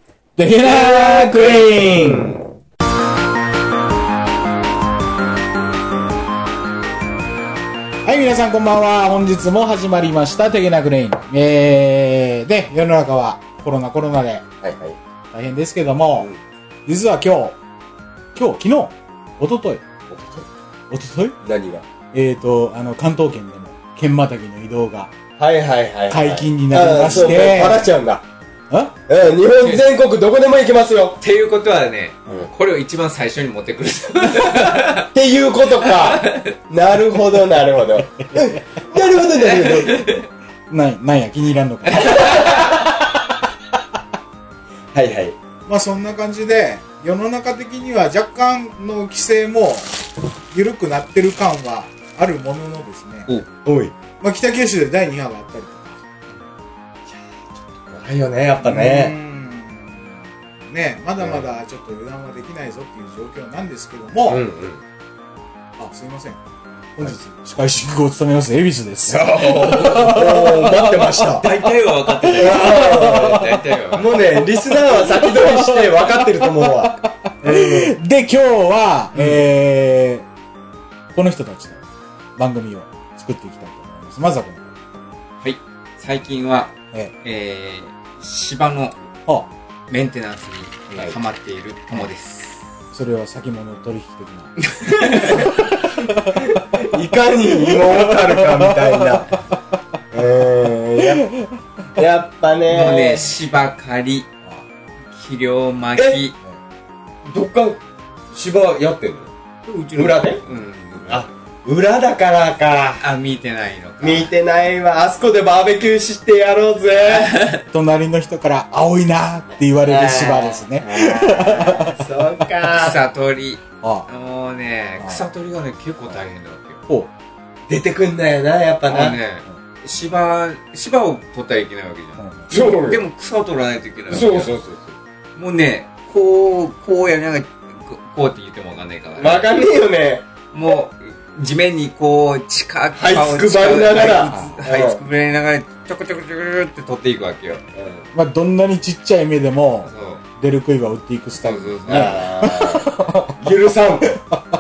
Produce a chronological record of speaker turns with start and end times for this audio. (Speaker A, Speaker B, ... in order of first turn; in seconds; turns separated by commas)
Speaker A: 0.4-2.4, Speaker B: 0.6-2.4, Speaker A: 8.1-14.4, Speaker B: 14.6-15.0, Speaker A: 15.3-16.3, Speaker A: 16.9-17.6, Speaker A: 18.4-19.9, Speaker B: 20.1-20.5, Speaker A: 20.9-21.4, Speaker B: 21.4-21.9, Speaker A: 22.1-25.1, Speaker B: 25.4-28.2, Speaker A: 26.1-27.8, Speaker A: 28.7-29.0, Speaker B: 29.1-31.2, Speaker C: 31.2-35.1, Speaker B: 35.0-40.2, Speaker C: 35.9-36.5, Speaker C: 39.3-40.3, Speaker A: 40.7-42.7, Speaker C: 41.9-42.6, Speaker B: 41.9-42.8, Speaker B: 44.9-45.4, Speaker A: 45.7-53.3, Speaker B: 53.6-53.9, Speaker A: 54.2-56.0, Speaker B: 57.8-59.1, Speaker A: 58.6-60.2, Speaker A: 60.7-64.5, Speaker B: 61.2-61.5, Speaker B: 64.3-64.8, Speaker A: 65.8-66.4, Speaker A: 67.0-71.4, Speaker B: 69.1-71.6, Speaker C: 71.3-74.1, Speaker A: 72.1-73.8, Speaker B: 72.3-78.0, Speaker A: 74.6-80.3, Speaker A: 81.1-81.8, Speaker A: 82.4-84.8, Speaker C: 85.4-88.9, Speaker C: 89.9-92.6, Speaker A: 92.9-96.7, Speaker C: 94.7-95.5, Speaker B: 96.2-99.3, Speaker A: 97.4-99.1, Speaker B: 100.1-101.3, Speaker B: 102.0-103.3, Speaker C: 102.7-104.3, Speaker C: 105.1-106.3, Speaker B: 106.0-106.2, Speaker B: 107.2-109.3, Speaker C: 109.7-111.3, Speaker B: 109.9-110.4, Speaker B: 111.0-113.0, Speaker C: 113.0-114.3, Speaker B: 114.0-117.3, Speaker C: 117.1-117.6, Speaker A: 117.7-122.0, Speaker B: 119.8-123.0, Speaker C: 122.7-126.8, Speaker A: 123.8-124.1, Speaker A: 125.0-125.2, Speaker B: 127.7-129.2, Speaker C: 128.9-134.6, Speaker A: 132.2-132.5, Speaker B: 132.5-133.0, Speaker B: 134.1-135.0, Speaker C: 135.4-139.4, Speaker B: 139.2-140.3, Speaker C: 140.5-147.6, Speaker B: 143.0-145.0, Speaker A: 144.2-144.6, Speaker B: 147.7-148.1, Speaker A: 148.1-153.4, Speaker C: 149.9-150.2, Speaker C: 151.4-152.3, Speaker B: 151.9-154.2, Speaker A: 154.1-154.4